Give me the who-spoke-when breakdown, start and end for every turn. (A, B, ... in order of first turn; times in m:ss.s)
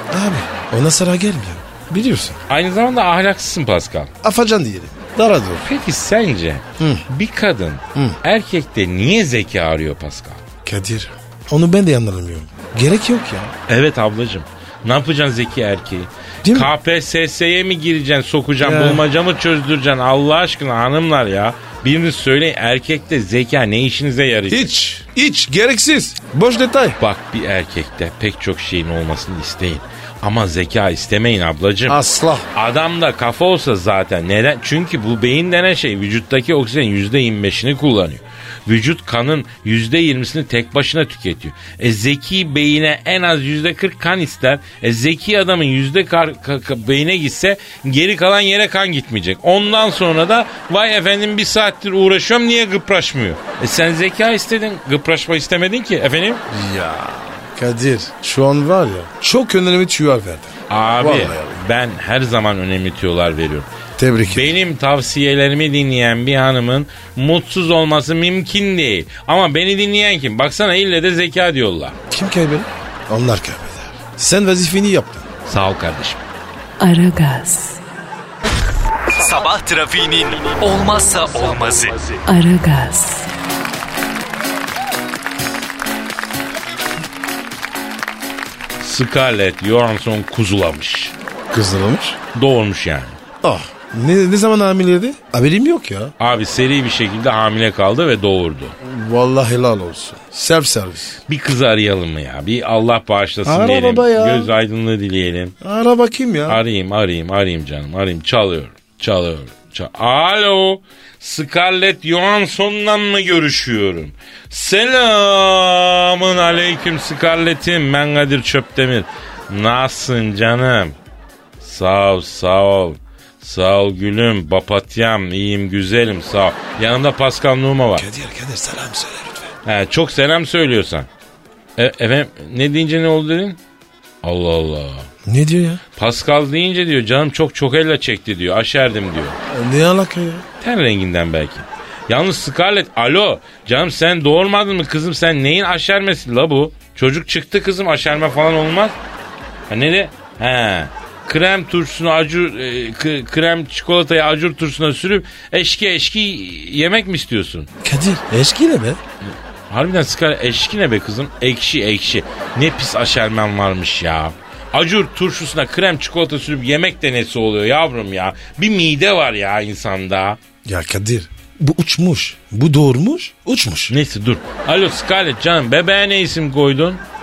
0:00.1-0:02.4 A
0:02.5-0:04.1 B
0:04.2-0:05.7 A
0:05.6-0:10.4 B
0:06.8-0:07.0 A
0:10.6-0:13.5 A
0:13.7-0:24.7 B
0:16.4-0:16.7 A
0:18.6-0:19.0 A
0:24.5-0:27.0 A
0:27.0-0:32.0 B
0:31.9-0:32.5 A
0:32.5-0:56.4 B
0:56.5-1:01.6 A
1:00.7-1:03.7 B
1:04.0-1:04.5 A
1:04.3-1:12.0 B
1:12.1-1:15.3 A
1:15.5-1:16.2 B
1:16.8-1:17.8 C
1:19.1-1:22.2 D
1:22.3-1:23.3 C
1:28.8-1:31.1 B
1:31.5-1:32.2 A
1:32.3-1:33.2 B
1:33.4-1:36.1 A
1:36.2-1:38.8 B
1:38.8-1:41.2 A
1:41.3-1:45.5 B
1:43.4-1:44.5 A
1:45.6-1:46.6 A
1:46.5-2:01.0 B
2:01.6-2:08.1 B
2:08.0-2:09.5 A
2:09.6-2:11.1 B
2:11.8-2:13.6 B
2:14.2-2:15.1 B
2:15.2-2:15.8 A
2:16.0-2:19.4 B
2:19.5-2:20.4 A
2:20.6-2:29.0 B
2:29.7-2:37.7 B
2:37.8-2:39.0 A
2:39.2-2:50.4 B
2:50.6-2:53.9 A
2:53.9-2:57.0 B